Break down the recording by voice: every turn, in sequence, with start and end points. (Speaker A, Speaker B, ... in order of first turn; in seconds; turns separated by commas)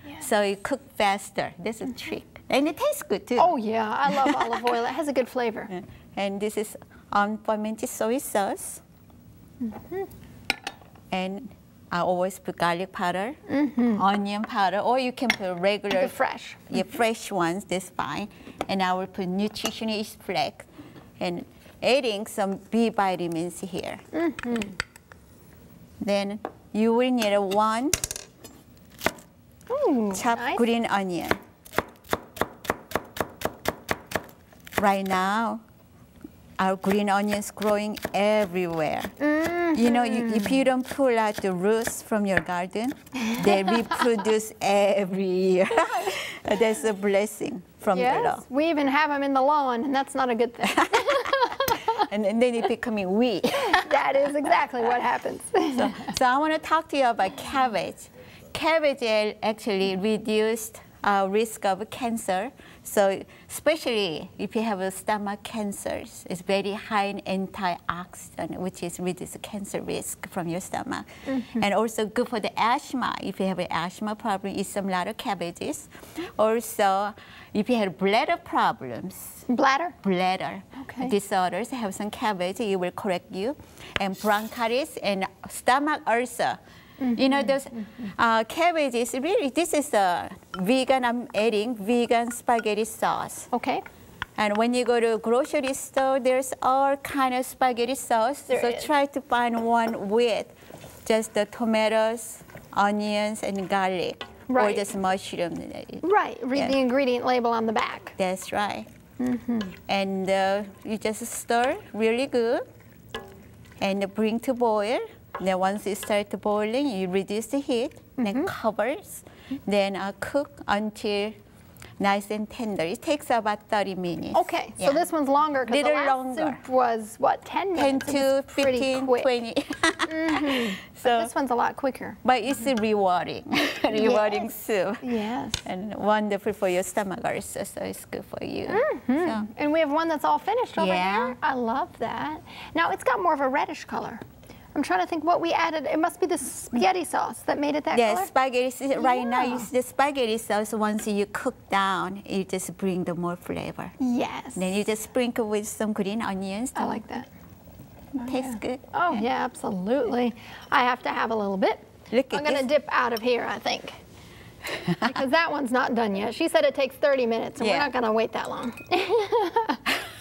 Speaker A: 0.2-3.5, Speaker B: 3.4-5.7, Speaker A: 4.1-4.4, Speaker A: 5.7-8.8, Speaker B: 9.6-10.1, Speaker A: 11.1-13.4, Speaker B: 13.5-14.0, Speaker A: 13.9-16.1, Speaker B: 15.9-16.9, Speaker A: 16.7-20.7, Speaker A: 21.2-24.0, Speaker B: 24.1-24.8, Speaker A: 26.0-28.1, Speaker B: 29.7-30.6, Speaker A: 30.1-31.4, Speaker A: 34.8-35.6, Speaker A: 36.6-39.1, Speaker B: 39.2-40.6, Speaker A: 39.7-48.4, Speaker B: 47.9-52.1, Speaker A: 50.6-54.3, Speaker B: 53.6-56.1, Speaker A: 55.7-79.5, Speaker B: 71.3-71.6, Speaker B: 79.5-80.0, Speaker A: 80.0-86.6, Speaker B: 80.8-81.1, Speaker B: 87.0-87.5, Speaker A: 87.2-93.5, Speaker B: 93.5-93.8, Speaker A: 94.4-100.5, Speaker B: 98.5-98.9, Speaker A: 101.1-106.8, Speaker B: 104.5-104.9, Speaker B: 106.0-108.2, Speaker A: 108.2-108.9, Speaker B: 109.2-109.8, Speaker A: 109.9-112.6, Speaker A: 113.8-121.4, Speaker B: 118.2-118.5, Speaker A: 122.0-125.0, Speaker B: 124.3-129.3, Speaker A: 125.7-126.6, Speaker A: 127.8-131.3, Speaker B: 130.1-132.2, Speaker A: 132.2-135.0, Speaker B: 133.9-134.5, Speaker B: 135.0-135.7, Speaker A: 135.7-139.5, Speaker B: 138.7-144.2, Speaker A: 140.8-141.4, Speaker B: 144.7-148.3, Speaker A: 147.9-154.0, Speaker B: 149.0-149.7, Speaker B: 154.0-154.7, Speaker A: 154.6-157.1, Speaker B: 156.8-157.3, Speaker A: 158.2-159.2, Speaker B: 158.2-164.0, Speaker A: 162.1-162.7, Speaker B: 165.0-169.8, Speaker A: 167.6-167.9